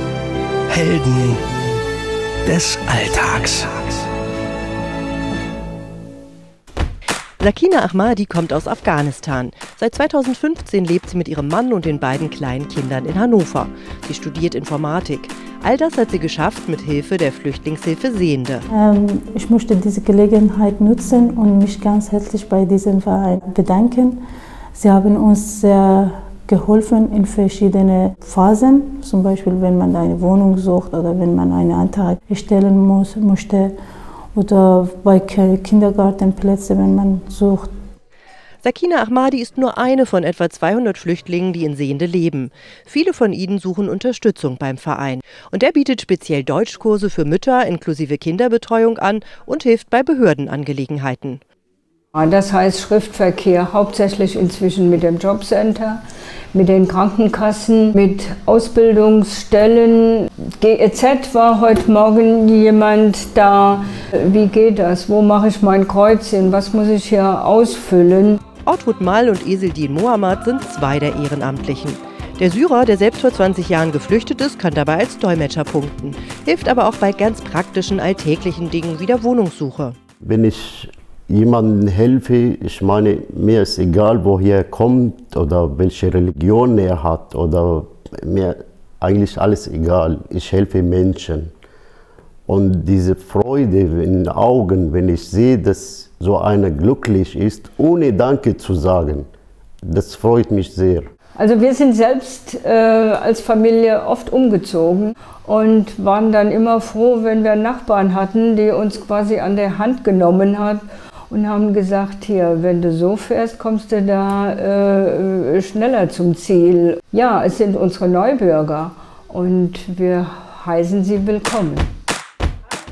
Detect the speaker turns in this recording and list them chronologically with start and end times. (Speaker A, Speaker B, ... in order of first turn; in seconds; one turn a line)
Speaker A: 0.7-1.4
Speaker A: 2.4-4.0
Speaker B: 7.4-18.6
Speaker C: 18.7-24.2
Speaker C: 24.7-33.7
Speaker C: 34.3-37.7
Speaker B: 38.6-51.4
Speaker D: 52.1-56.0
Speaker D: 56.5-68.4
Speaker B: 68.6-80.0
Speaker E: 80.2-91.5
Speaker E: 92.5-99.3
Speaker E: 99.8-101.1
Speaker D: 101.3-121.9